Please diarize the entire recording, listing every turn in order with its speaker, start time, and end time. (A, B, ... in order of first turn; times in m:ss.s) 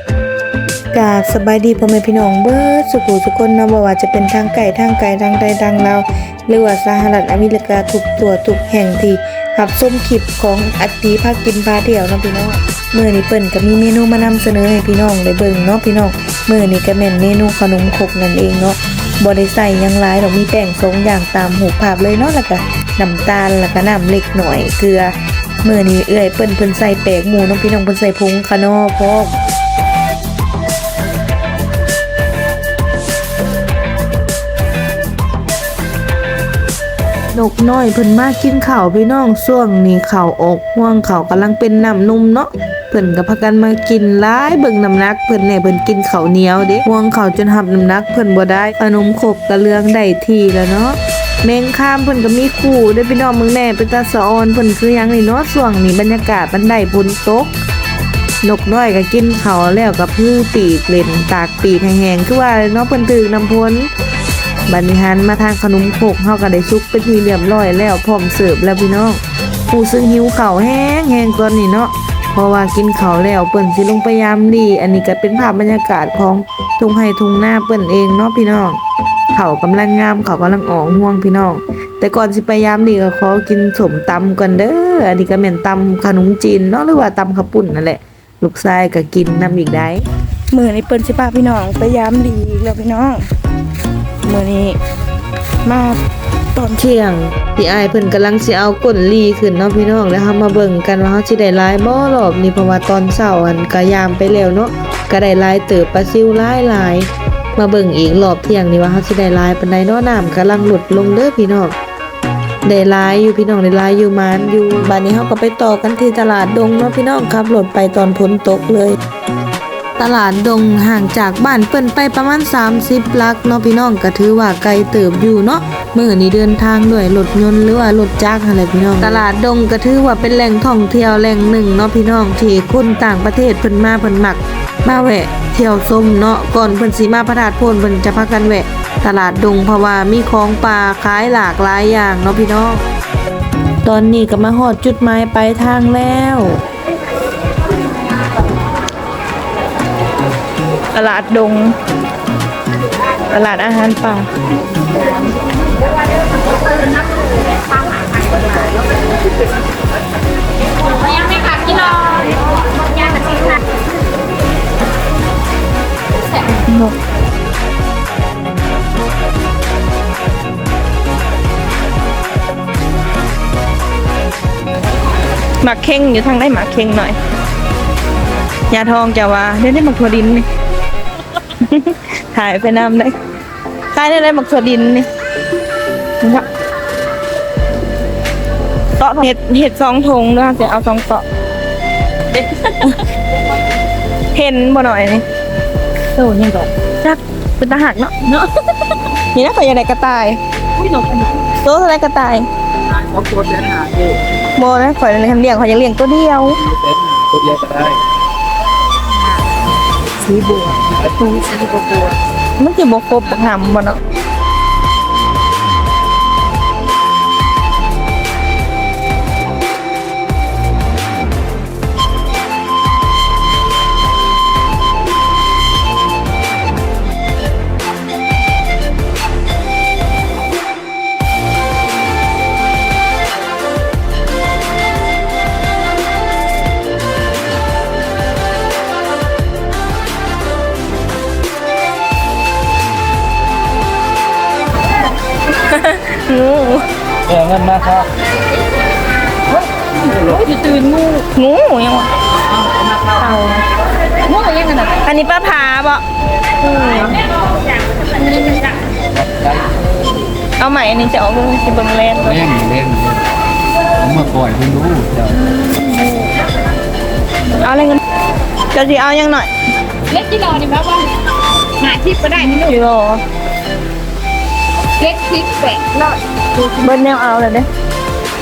0:00.9-0:29.3 A
0:37.3-0:57.5 A
0:58.4-1:03.9 A
1:04.7-1:18.8 A
1:19.3-1:30.0 A
1:30.5-1:33.2 B
1:34.2-1:34.8 B
1:35.6-1:36.0 B
1:36.7-1:51.8 A
1:52.6-1:59.0 A
2:00.0-2:22.8 A
2:23.8-2:26.6 A
2:30.9-2:31.8 B
2:33.3-2:34.3 B
2:40.9-2:42.4 C
2:42.9-2:43.6 C
2:46.6-2:46.9 B
2:55.6-2:57.2 B
2:58.7-3:00.5 B
3:01.6-3:03.1 B
3:03.9-3:05.1 B
3:06.2-3:06.5 B
3:09.0-3:11.2 B
3:12.3-3:13.0 B
3:14.3-3:15.2 B
3:16.1-3:22.5 B
3:23.2-3:24.2 D
3:24.6-3:26.6 B
3:26.7-3:28.0 D
3:30.3-3:30.8 A
3:30.8-3:31.2 D
3:31.6-3:32.0 A
3:32.6-3:34.0 B
4:05.7-4:06.9 B
4:07.3-4:08.1 D
4:10.2-4:10.4 D
4:10.4-4:11.2 C
4:11.2-4:12.1 B
4:13.1-4:13.6 B
4:14.3-4:16.0 B
4:14.5-4:14.8 C
4:16.6-4:17.2 B
4:18.2-4:18.6 B
4:19.1-4:19.7 D
4:20.6-4:22.5 B
4:22.3-4:23.3 D
4:23.9-4:25.6 D
4:25.6-4:26.3 B
4:27.6-4:28.0 B
4:28.7-4:29.5 B
4:30.1-4:31.1 C
4:31.8-4:32.4 C
4:32.3-4:33.2 B
4:35.0-4:36.2 C
4:36.6-4:37.7 B